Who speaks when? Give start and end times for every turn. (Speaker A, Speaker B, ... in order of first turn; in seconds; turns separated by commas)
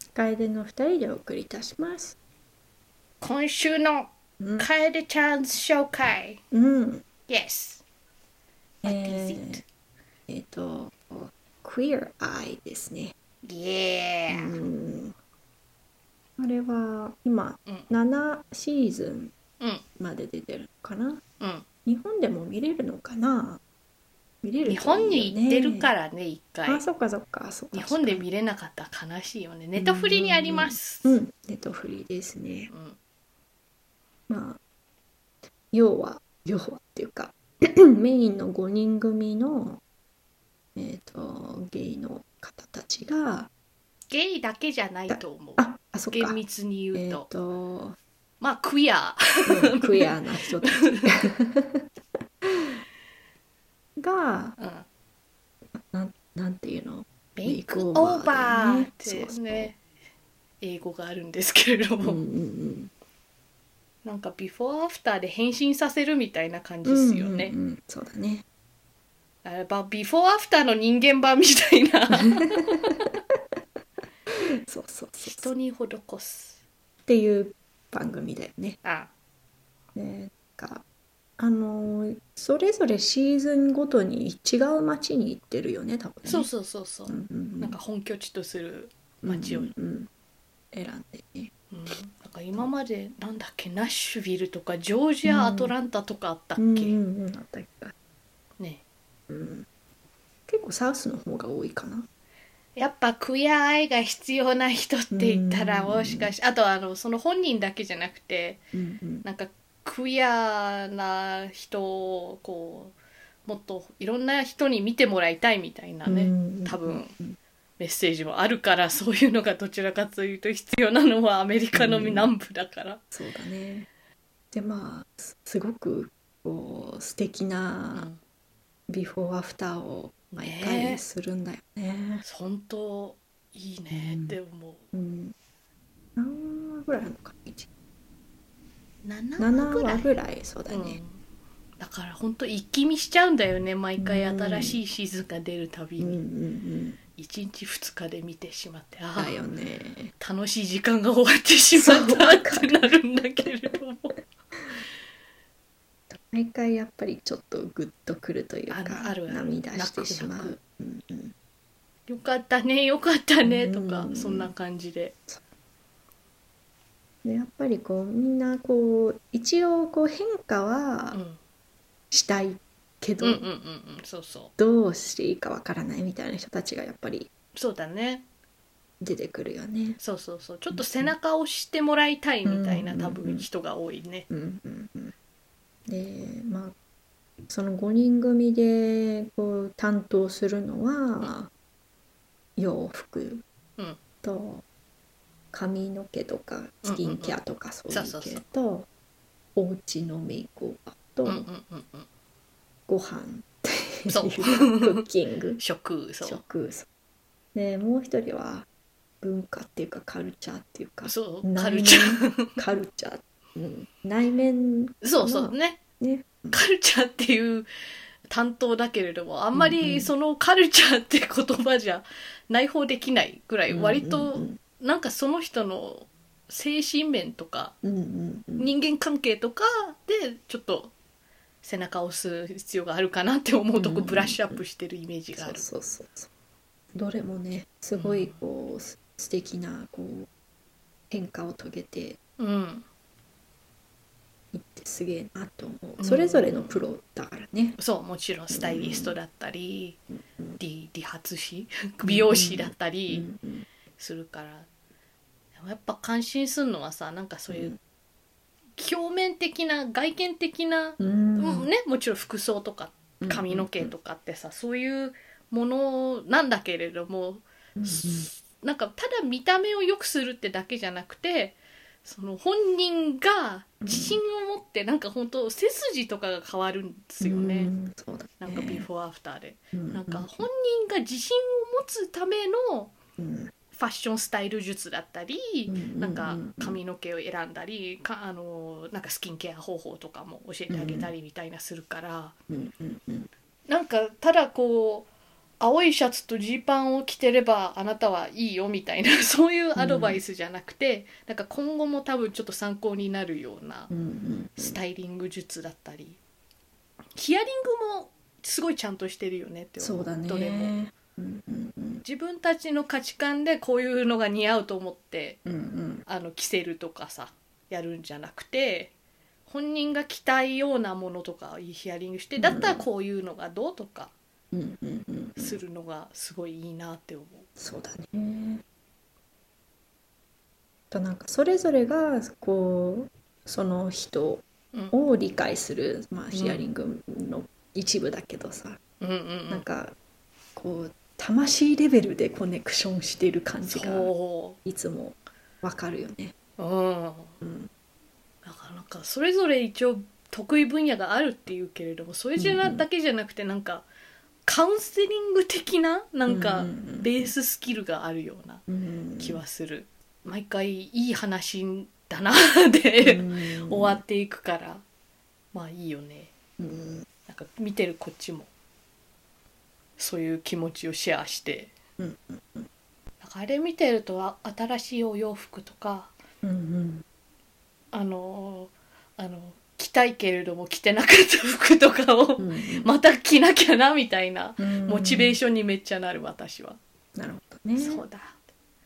Speaker A: 0.1-2.1, Speaker B: 3.2-6.4, Speaker A: 4.4-4.7, Speaker A: 6.5-7.0, Speaker B: 7.3-7.8, Speaker B: 8.8-9.6, Speaker A: 8.8-9.6, Speaker A: 10.3-13.1, Speaker B: 13.4-14.6, Speaker A: 14.3-15.1, Speaker A: 16.4-19.3, Speaker A: 20.0-21.2, Speaker B: 21.4-21.6, Speaker A: 21.8-23.6, Speaker A: 24.4-25.9, Speaker B: 24.6-26.8, Speaker A: 26.6-28.2, Speaker B: 27.7-31.2, Speaker A: 29.8-32.7, Speaker B: 32.7-33.0, Speaker A: 34.3-34.6, Speaker A: 35.7-39.8, Speaker A: 40.7-43.5, Speaker B: 44.1-47.3, Speaker A: 45.1-46.4, Speaker A: 46.9-48.0, Speaker B: 48.4-51.3, Speaker A: 49.5-51.8, Speaker A: 52.4-52.8, Speaker A: 54.0-54.5, Speaker B: 54.6-54.9, Speaker A: 55.7-59.7, Speaker B: 57.4-59.8, Speaker B: 60.6-62.2, Speaker A: 62.0-62.9, Speaker B: 64.0-67.5, Speaker A: 66.8-68.4, Speaker B: 69.4-73.1, Speaker A: 72.7-73.1, Speaker A: 74.7-75.5, Speaker B: 75.2-76.6, Speaker A: 77.1-78.8, Speaker B: 78.8-79.1, Speaker A: 79.9-80.8, Speaker A: 81.4-86.5, Speaker B: 86.2-89.7, Speaker A: 87.1-87.8, Speaker A: 89.2-90.1, Speaker A: 90.7-91.5, Speaker B: 91.7-97.0, Speaker A: 95.2-95.7, Speaker A: 96.6-97.9, Speaker A: 99.3-99.7, Speaker A: 100.5-102.1, Speaker B: 102.8-108.6, Speaker A: 105.1-106.3, Speaker A: 108.7-109.2, Speaker B: 109.2-112.9, Speaker B: 113.5-117.1, Speaker A: 116.0-117.4, Speaker B: 117.8-123.0, Speaker A: 121.7-122.3, Speaker A: 123.1-123.9, Speaker A: 124.5-128.1, Speaker B: 127.9-128.2, Speaker A: 128.9-132.2, Speaker B: 130.4-131.0, Speaker B: 132.2-134.8, Speaker A: 133.9-134.3, Speaker A: 134.9-135.3, Speaker A: 136.2-137.7, Speaker B: 139.0-140.2, Speaker A: 139.4-141.0, Speaker B: 140.7-141.2, Speaker B: 141.8-146.2, Speaker A: 144.0-144.8, Speaker A: 146.0-147.0, Speaker B: 147.2-149.4, Speaker A: 149.2-150.1, Speaker B: 150.2-154.2, Speaker A: 151.7-152.9, Speaker A: 156.1-161.3, Speaker B: 158.7-160.6, Speaker B: 162.1-165.1, Speaker A: 163.4-164.5, Speaker A: 167.2-171.2, Speaker B: 171.1-171.4, Speaker A: 172.1-173.5, Speaker B: 173.2-174.5, Speaker A: 174.6-177.3, Speaker B: 177.6-178.2, Speaker A: 179.0-180.0, Speaker B: 180.0-184.3, Speaker A: 180.7-181.1, Speaker A: 182.4-183.5, Speaker A: 184.3-185.1, Speaker A: 185.9-186.7, Speaker A: 187.5-191.5, Speaker A: 192.6-193.4, Speaker A: 194.2-194.6, Speaker A: 195.5-198.9, Speaker B: 196.8-197.4, Speaker B: 197.9-198.4, Speaker A: 199.6-201.5, Speaker B: 201.2-202.1, Speaker A: 202.9-205.6, Speaker B: 204.1-205.1, Speaker B: 205.6-206.4, Speaker A: 206.2-206.9, Speaker A: 207.5-208.7, Speaker A: 209.2-216.5, Speaker B: 211.0-212.6, Speaker B: 215.0-215.8, Speaker B: 216.5-217.7, Speaker B: 218.3-227.7, Speaker A: 219.5-220.1, Speaker A: 223.7-224.6, Speaker A: 227.8-228.7, Speaker B: 228.6-230.9, Speaker B: 231.6-235.6, Speaker A: 233.8-234.6, Speaker A: 235.3-236.3, Speaker A: 236.9-240.3, Speaker B: 237.9-238.4, Speaker A: 241.1-242.2, Speaker B: 242.4-242.8, Speaker A: 244.5-247.8, Speaker B: 246.0-246.8, Speaker B: 247.8-250.0, Speaker A: 248.5-249.1, Speaker B: 250.6-253.2, Speaker A: 252.0-253.7, Speaker B: 254.0-254.7, Speaker B: 255.6-257.7, Speaker A: 257.5-257.8, Speaker B: 258.8-277.7, Speaker A: 261.0-261.7, Speaker A: 263.2-263.9, Speaker A: 267.8-268.3, Speaker A: 273.8-274.2, Speaker A: 277.2-278.9, Speaker B: 278.4-282.9, Speaker A: 279.7-280.4, Speaker A: 283.2-283.5, Speaker B: 283.7-292.3, Speaker A: 285.7-286.8, Speaker A: 290.7-291.1, Speaker A: 292.5-293.3, Speaker B: 293.7-295.1, Speaker B: 295.6-303.9, Speaker A: 299.8-300.2, Speaker A: 303.9-304.8, Speaker B: 304.6-306.2, Speaker B: 307.1-310.8, Speaker A: 309.8-312.0, Speaker B: 312.0-315.4, Speaker A: 315.4-316.0, Speaker B: 316.1-318.9, Speaker B: 319.5-324.1, Speaker A: 322.4-322.8, Speaker A: 324.5-325.6, Speaker B: 325.4-327.5, Speaker A: 327.6-328.6, Speaker A: 330.9-338.8, Speaker B: 336.3-336.6, Speaker B: 339.0-339.6, Speaker A: 339.5-339.9, Speaker A: 340.5-344.1, Speaker B: 343.6-344.6, Speaker A: 344.6-346.3, Speaker B: 346.6-347.3, Speaker A: 347.4-347.7, Speaker B: 348.4-353.9, Speaker A: 352.4-352.8, Speaker B: 354.4-358.6, Speaker A: 356.3-357.3, Speaker A: 358.7-359.4, Speaker B: 359.2-364.8, Speaker A: 363.0-364.0, Speaker B: 365.5-366.3, Speaker A: 366.6-367.1, Speaker B: 367.3-368.5, Speaker B: 370.0-371.7, Speaker A: 372.0-372.7, Speaker B: 373.2-376.1, Speaker A: 376.4-377.0, Speaker B: 377.9-386.8, Speaker A: 382.4-382.9, Speaker A: 384.6-385.4, Speaker A: 387.1-388.0, Speaker B: 387.8-388.4